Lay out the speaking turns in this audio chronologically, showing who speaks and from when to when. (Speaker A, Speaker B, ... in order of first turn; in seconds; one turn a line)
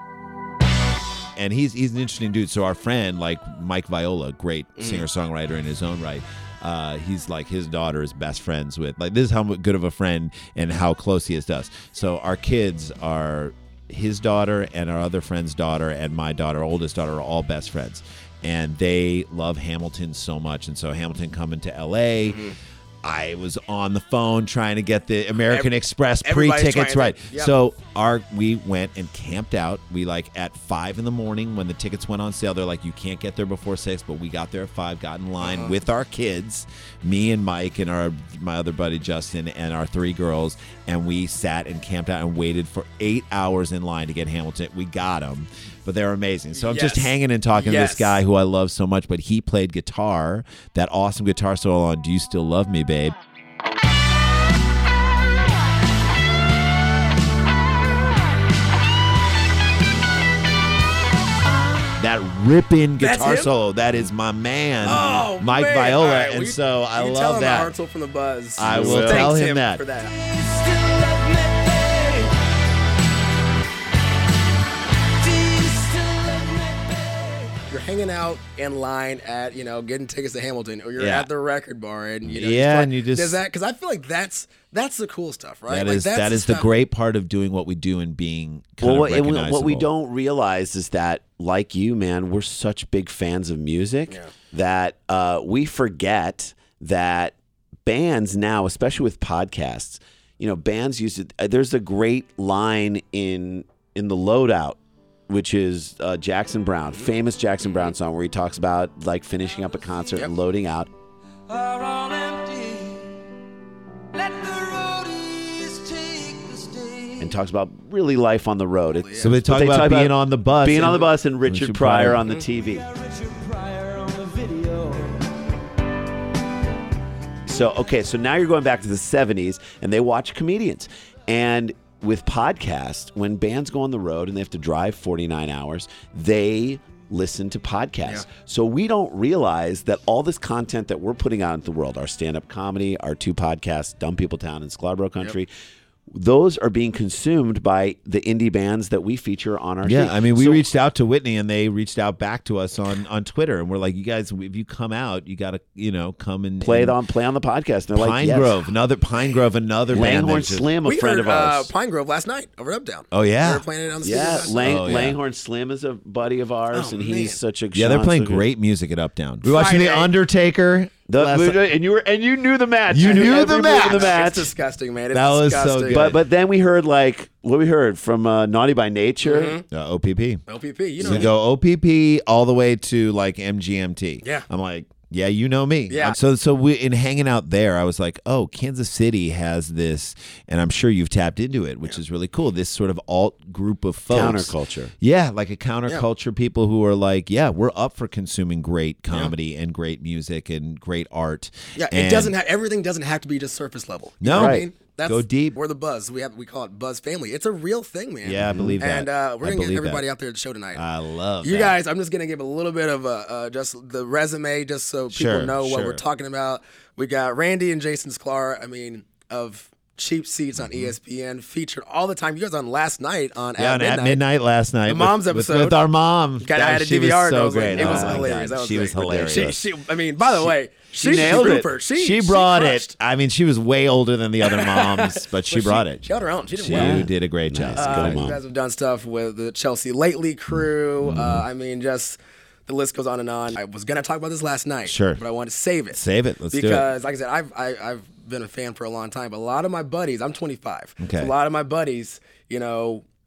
Speaker A: 1.4-22.5
Speaker B: 4.8-5.0
Speaker B: 22.2-22.6
Speaker A: 23.0-53.2
Speaker B: 25.5-27.5
Speaker B: 35.4-35.8
Speaker B: 46.5-48.2
Speaker A: 62.0-67.7
Speaker B: 63.0-63.5
Speaker B: 64.8-70.1
Speaker A: 68.6-69.8
Speaker C: 68.6-69.3
Speaker D: 70.0-72.4
Speaker D: 75.1-77.6
Speaker B: 77.7-86.7
Speaker A: 81.0-81.3
Speaker A: 82.3-83.4
Speaker A: 85.7-89.9
Speaker C: 88.8-110.9
Speaker D: 111.5-113.2
Speaker D: 114.1-117.3
Speaker C: 117.2-122.8
Speaker B: 118.9-119.3
Speaker A: 119.2-122.3
Speaker D: 122.3-125.4
Speaker C: 127.5-145.5
Speaker C: 146.1-150.7
Speaker A: 149.8-157.0
Speaker C: 156.6-158.6
Speaker A: 157.9-160.7
Speaker C: 159.9-161.7
Speaker B: 160.8-164.9
Speaker A: 163.1-163.6
Speaker C: 164.0-168.4
Speaker A: 164.5-165.2
Speaker B: 166.7-167.4
Speaker A: 167.7-171.6
Speaker B: 169.4-170.1
Speaker C: 171.1-174.5
Speaker A: 172.9-174.2
Speaker B: 173.0-176.1
Speaker A: 175.1-176.2
Speaker C: 175.9-179.6
Speaker B: 179.2-179.6
Speaker A: 179.7-180.4
Speaker B: 180.5-181.3
Speaker A: 181.0-202.3
Speaker C: 181.0-181.3
Speaker B: 185.9-186.2
Speaker C: 194.1-194.9
Speaker B: 201.8-210.8
Speaker A: 204.2-205.6
Speaker C: 204.3-204.7
Speaker A: 208.2-210.0
Speaker C: 208.4-208.8
Speaker A: 210.7-211.8
Speaker B: 211.4-224.2
Speaker A: 215.1-216.0
Speaker A: 220.6-220.9
Speaker A: 223.6-229.6
Speaker B: 224.9-225.8
Speaker B: 226.4-232.9
Speaker C: 227.7-228.4
Speaker C: 228.9-229.6
Speaker C: 230.9-231.7
Speaker A: 231.1-238.3
Speaker B: 234.4-237.1
Speaker C: 236.7-238.4
Speaker B: 237.8-253.0
Speaker A: 241.0-241.4
Speaker A: 244.9-245.2
Speaker A: 245.9-246.9
Speaker A: 251.0-251.3